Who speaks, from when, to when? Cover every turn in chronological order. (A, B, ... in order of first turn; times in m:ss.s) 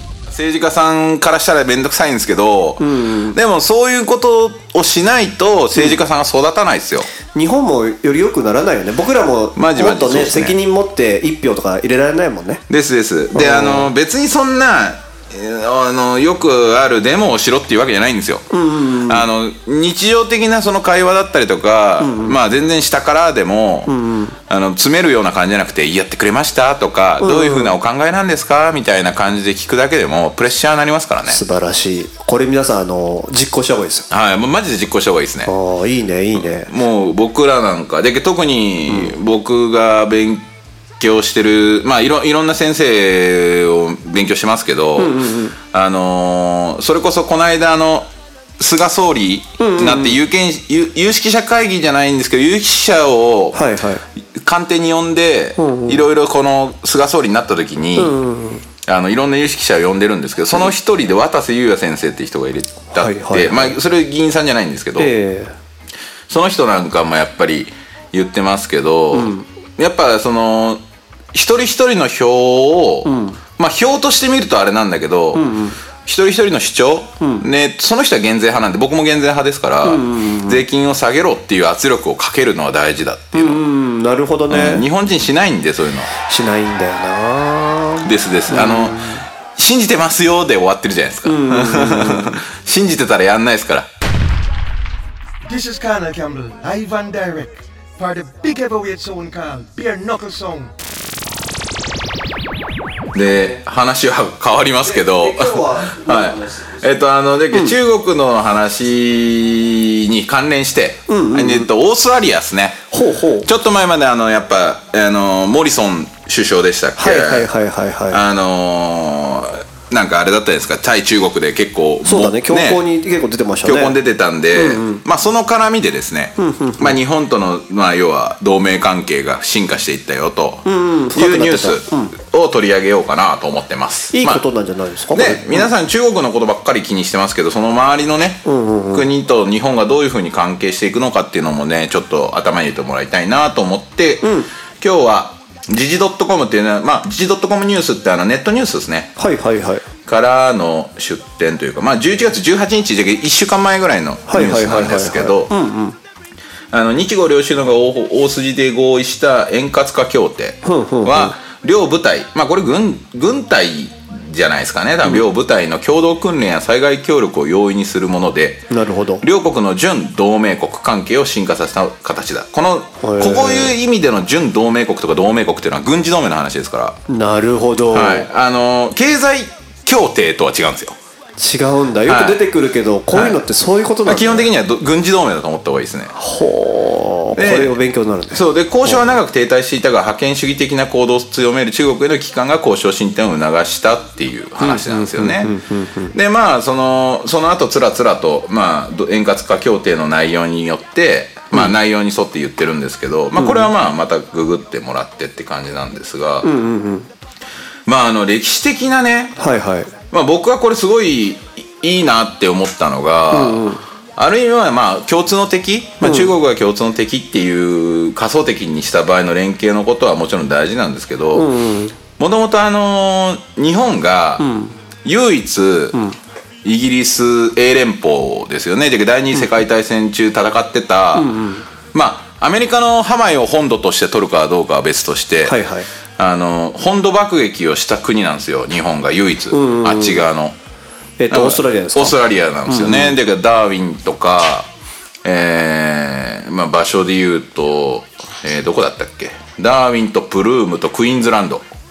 0:00.3-0:07.1 A
0:02.8-0:03.4 B
0:07.3-0:12.6 B
0:09.6-0:10.6 A
0:12.7-0:23.9 A
0:13.3-0:13.9 B
0:18.5-0:19.3 B
0:22.0-0:22.4 B
0:23.9-0:24.4 B
0:24.5-0:31.4 A
0:27.2-0:27.7 B
0:31.2-0:34.1 B
0:34.1-0:35.5 A
0:35.4-0:36.7 B
0:36.6-0:40.4 A
0:38.9-0:39.1 B
0:41.0-0:48.1 A
0:45.0-0:45.6 B
0:48.6-0:53.6 A
0:49.6-0:50.2 B
0:53.5-0:54.0 B
0:54.4-0:58.1 A
0:55.6-0:56.0 B
0:58.0-0:58.6 B
0:58.8-1:05.1 A
1:02.9-1:03.8 B
1:05.0-1:05.5 B
1:06.3-1:10.8 A
1:09.1-1:09.5 B
1:11.3-1:15.4 A
1:13.0-1:13.4 B
1:15.3-1:15.8 B
1:16.0-1:23.6 A
1:17.2-1:17.4 B
1:19.8-1:20.6 B
1:23.3-1:24.9 B
1:24.5-1:26.1 A
1:26.3-1:29.2 B
1:28.0-1:33.9 A
1:31.2-1:32.4 B
1:35.4-1:40.7 C
1:43.1-1:52.8 A
1:44.8-1:46.9 B
1:51.1-1:51.7 B
1:52.9-1:53.5 B
1:53.4-1:57.5 A
1:57.0-1:58.2 B
1:58.1-2:02.8 A
2:02.0-2:04.0 B
2:03.6-2:14.4 A
2:04.5-2:05.0 B
2:06.4-2:07.0 B
2:10.6-2:12.1 B
2:14.1-2:15.7 B
2:15.1-2:24.3 A
2:18.4-2:19.1 B
2:24.2-2:24.5 B
2:24.8-2:29.1 A
2:29.2-2:29.8 B
2:30.0-2:35.5 A
2:34.3-2:36.0 B
2:36.7-2:48.7 A
2:40.6-2:41.4 B
2:48.7-2:49.2 B
2:49.2-2:57.0 A
2:53.0-2:53.8 B
2:57.1-2:58.3 B
2:57.9-3:01.0 A
3:01.4-3:04.5 B
3:02.0-3:02.4 A
3:03.1-3:03.4 A
3:04.0-3:06.1 A
3:06.1-3:09.2 B
3:07.3-3:07.7 A
3:08.3-3:15.5 A
3:14.6-3:16.1 B
3:16.1-3:26.5 A
3:23.4-3:23.7 B
3:26.4-3:27.1 B
3:27.8-3:29.3 A
3:29.4-3:29.9 B
3:30.1-3:41.5 A
3:33.3-3:33.8 B
3:36.0-3:36.3 B
3:41.3-3:42.0 B
3:42.2-3:44.4 A
3:44.4-3:44.8 B
3:45.0-3:46.0 A
3:46.6-3:51.3 A
3:51.1-3:51.6 B
3:51.9-3:55.5 A
3:55.4-3:55.9 B
3:56.2-4:00.5 A
3:59.5-4:00.2 B
4:01.2-4:03.2 B
4:01.3-4:04.7 A
4:05.2-4:11.6 A